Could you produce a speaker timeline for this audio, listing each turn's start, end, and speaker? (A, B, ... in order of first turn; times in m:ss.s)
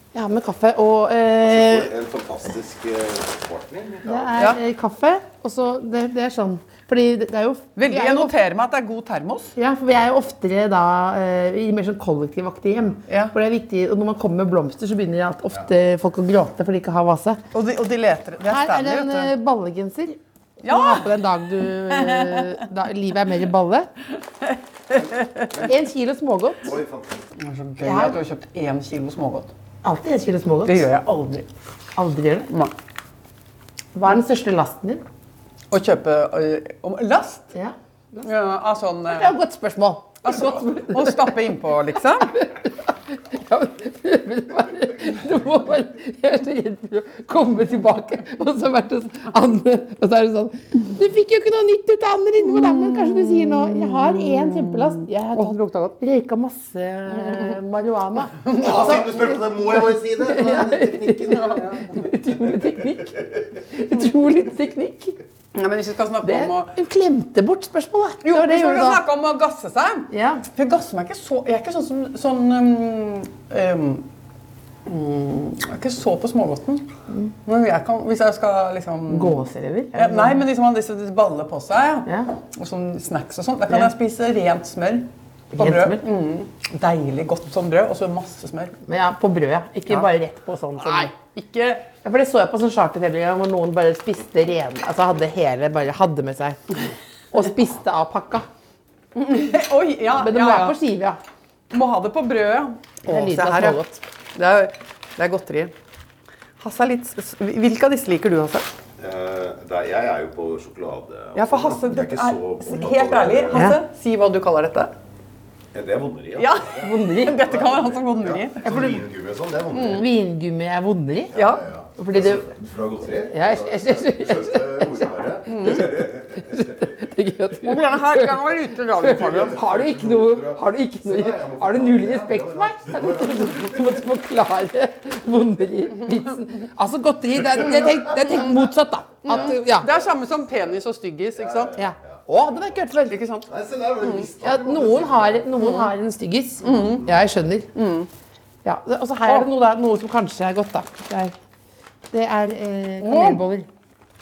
0:00.1-0:01.9 A
0:01.4-0:04.4 B
0:04.1-0:08.3 A
0:07.8-0:09.5 C
0:09.6-0:17.4 A
0:13.1-0:13.3 C
0:17.5-0:19.3 C
0:18.4-0:23.9 A
0:20.6-0:21.2 C
0:21.9-0:22.6 C
0:24.4-0:25.6 C
0:25.6-0:26.7 A
0:26.6-0:27.2 B
0:27.4-0:29.5 C
0:27.8-0:28.2 A
0:29.8-0:30.9 A
0:30.7-0:31.5 C
0:32.0-0:32.5 A
0:34.0-0:35.0 A
0:35.7-0:37.5 C
0:37.6-0:38.3 A
0:38.2-0:39.3 C
0:39.1-0:41.4 A
0:40.2-0:42.4 C
0:42.2-1:05.2 A
0:52.5-0:56.0 C
0:57.1-0:57.6 C
0:58.4-0:59.0 C
0:58.6-1:01.6 B
1:01.3-1:01.8 C
1:05.5-1:06.7 C
1:06.2-1:09.0 A
1:08.2-1:14.1 C
1:10.1-1:10.4 A
1:14.9-1:16.9 C
1:17.4-1:19.4 C
1:19.1-1:20.4 A
1:20.0-1:28.8 C
1:25.5-1:26.0 A
1:28.9-1:31.1 A
1:30.8-1:31.9 C
1:32.0-1:36.7 A
1:37.3-1:38.5 A
1:39.2-1:40.8 C
1:40.2-1:41.2 A
1:41.7-1:43.8 C
1:43.1-1:44.0 A
1:44.4-1:45.7 C
1:46.6-1:48.7 C
1:49.0-1:53.7 B
1:51.4-1:54.9 C
1:53.5-1:53.8 A
1:55.7-2:00.1 B
1:56.4-1:59.0 C
1:56.8-1:57.6 A
1:59.7-2:00.0 C
1:59.8-2:01.4 A
2:01.3-2:07.0 B
2:01.4-2:01.6 C
2:02.0-2:02.5 A
2:03.3-2:19.9 A
2:05.5-2:05.9 C
2:07.6-2:09.6 C
2:09.0-2:14.0 B
2:19.2-2:21.8 C
2:21.4-2:22.2 B
2:21.8-2:23.2 A
2:23.1-2:23.5 C
2:23.5-2:25.5 B
2:24.0-2:24.3 C
2:24.4-2:27.7 A
2:25.6-2:25.9 C
2:26.6-2:27.1 C
2:27.8-2:28.1 C
2:28.6-2:31.3 A
2:32.1-2:33.7 A
2:33.0-2:33.4 C